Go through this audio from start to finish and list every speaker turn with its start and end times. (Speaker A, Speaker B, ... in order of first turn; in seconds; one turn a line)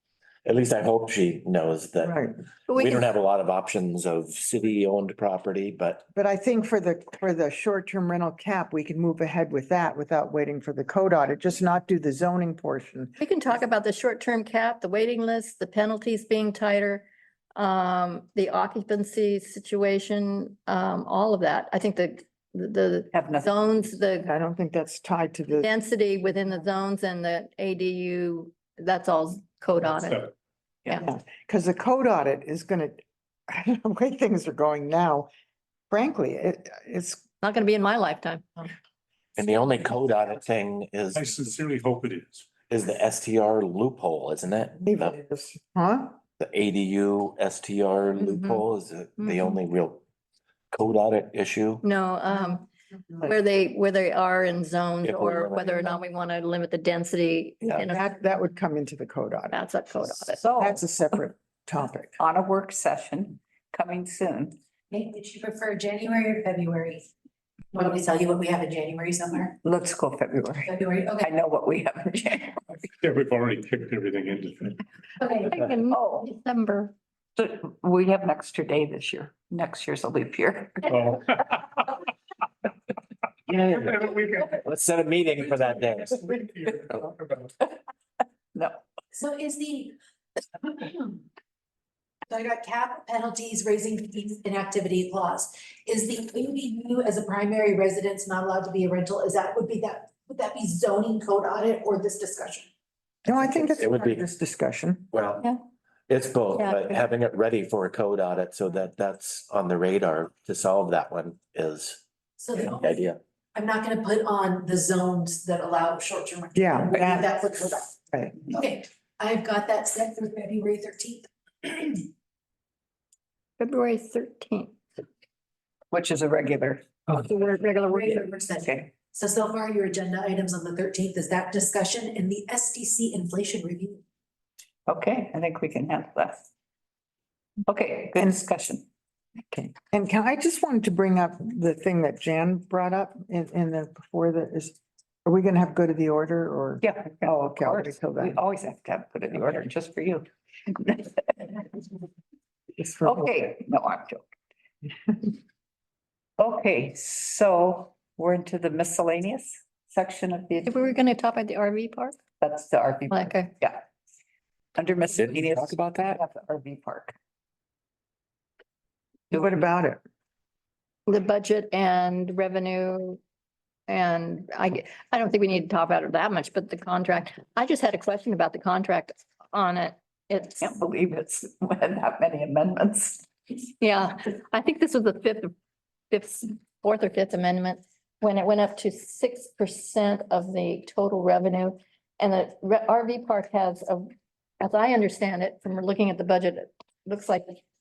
Speaker A: 0.5-2.2
Speaker B: 2.0-2.4
Speaker C: 2.7-3.1
Speaker A: 2.8-6.1
Speaker B: 6.2-13.1
Speaker C: 13.2-24.3
Speaker D: 23.1-23.5
Speaker B: 24.3-25.7
Speaker C: 25.6-30.3
Speaker B: 31.0-35.3
Speaker B: 35.9-37.2
Speaker C: 37.4-38.7
Speaker A: 39.4-41.3
Speaker E: 41.1-42.5
Speaker A: 42.7-45.2
Speaker B: 44.8-46.2
Speaker A: 46.4-50.0
Speaker C: 48.2-48.6
Speaker C: 49.2-49.6
Speaker A: 50.7-51.9
Speaker C: 51.8-52.7
Speaker C: 53.2-58.1
Speaker A: 55.0-55.8
Speaker B: 57.6-59.6
Speaker C: 59.5-60.4
Speaker D: 60.3-60.9
Speaker B: 60.6-62.2
Speaker D: 62.2-64.5
Speaker F: 64.9-67.1
Speaker F: 67.7-69.6
Speaker D: 69.6-72.9
Speaker F: 70.7-71.3
Speaker E: 73.0-74.8
Speaker F: 75.2-75.6
Speaker C: 75.2-76.9
Speaker D: 75.9-76.3
Speaker D: 77.4-81.2
Speaker E: 80.9-81.5
Speaker A: 83.5-86.4
Speaker E: 85.6-87.5
Speaker F: 89.1-90.0
Speaker F: 90.6-91.2
Speaker F: 92.3-102.7
Speaker B: 103.3-105.1
Speaker A: 103.6-104.2
Speaker A: 105.1-105.5
Speaker A: 106.1-112.0
Speaker C: 106.5-106.9
Speaker F: 112.4-113.0
Speaker A: 112.7-113.2
Speaker F: 113.5-122.1
Speaker B: 116.5-117.3
Speaker B: 118.1-118.4
Speaker C: 123.6-124.8
Speaker D: 125.9-127.2
Speaker C: 127.2-128.3
Speaker F: 127.9-134.0
Speaker D: 128.6-128.9
Speaker D: 134.9-136.5
Speaker D: 137.7-138.8
Speaker B: 139.5-148.4
Speaker D: 146.8-151.9
Speaker B: 152.8-153.4
Speaker D: 153.0-154.2
Speaker D: 156.4-160.9
Speaker C: 160.6-162.2
Speaker D: 162.4-163.8
Speaker C: 163.1-163.6
Speaker D: 164.8-167.2
Speaker A: 165.2-166.2
Speaker B: 169.3-170.0
Speaker C: 171.1-173.2
Speaker C: 173.9-180.7
Speaker D: 180.6-183.3
Speaker C: 183.8-185.5
Speaker C: 186.1-194.1
Speaker C: 194.6-197.6